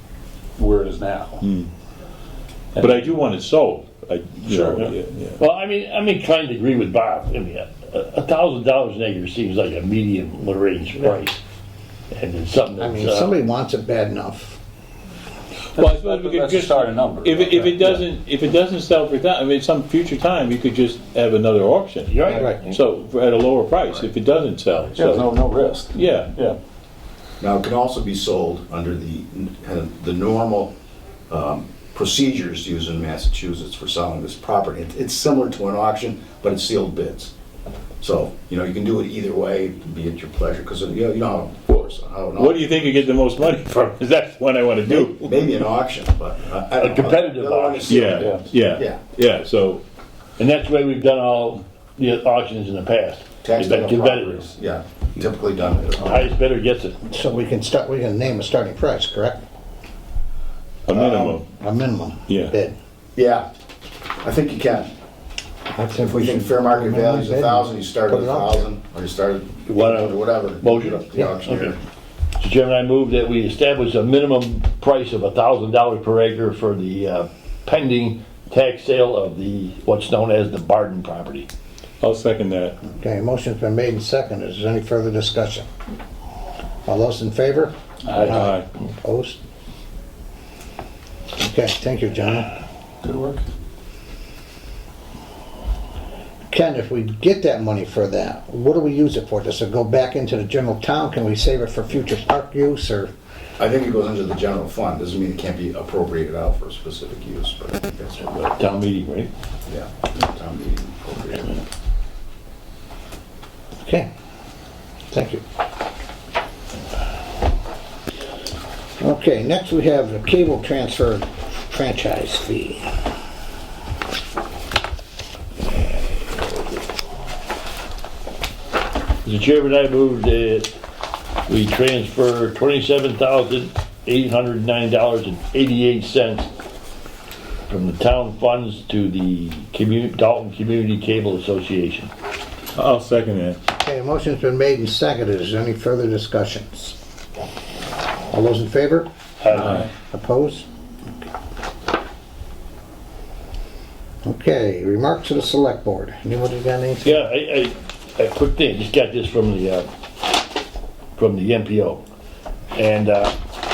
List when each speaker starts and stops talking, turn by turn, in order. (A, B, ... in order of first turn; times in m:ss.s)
0:00.6-0:01.4 A
0:01.4-0:01.7 B
0:02.7-0:03.1 A
0:02.8-0:05.4 B
0:04.5-0:04.9 A
0:05.4-0:11.4 C
0:12.1-0:13.3 C
0:12.8-0:14.6 D
0:15.7-0:25.3 B
0:15.8-0:18.0 A
0:22.1-0:22.8 C
0:22.3-0:22.6 D
0:25.0-0:26.6 A
0:25.9-0:26.3 B
0:27.4-0:30.8 E
0:31.3-0:37.3 E
0:38.0-0:42.8 E
0:41.7-0:45.4 B
0:44.8-0:49.0 E
0:46.7-0:48.2 C
0:47.9-0:49.8 B
0:50.4-0:54.5 C
0:53.4-0:56.3 E
0:56.0-0:57.0 C
0:57.1-0:59.4 D
1:00.9-1:01.5 B
1:00.9-1:02.8 D
1:02.3-1:02.5 B
1:03.2-1:03.5 E
1:04.2-1:04.9 E
1:05.8-1:08.7 D
1:06.0-1:11.8 E
1:09.7-1:11.8 C
1:12.4-1:21.5 C
1:22.0-1:22.8 B
1:22.8-1:25.7 D
1:26.9-1:29.4 D
1:28.1-1:28.4 A
1:28.2-1:28.6 B
1:31.4-1:32.5 D
1:33.0-1:33.4 A
1:36.5-1:43.1 D
1:43.6-1:48.2 E
1:48.2-1:49.3 C
1:49.7-1:51.6 E
1:53.8-1:54.1 D
1:55.1-1:55.4 D
1:59.0-2:02.9 D
2:09.2-2:10.8 C
2:11.5-2:16.5 C
2:17.7-2:22.1 C
2:22.8-2:23.6 B
2:23.8-2:27.0 D
2:28.3-2:30.7 D
2:29.4-2:29.9 C
2:34.2-2:37.2 D
2:37.0-2:39.9 C
2:41.2-2:42.0 C
2:42.7-2:43.4 C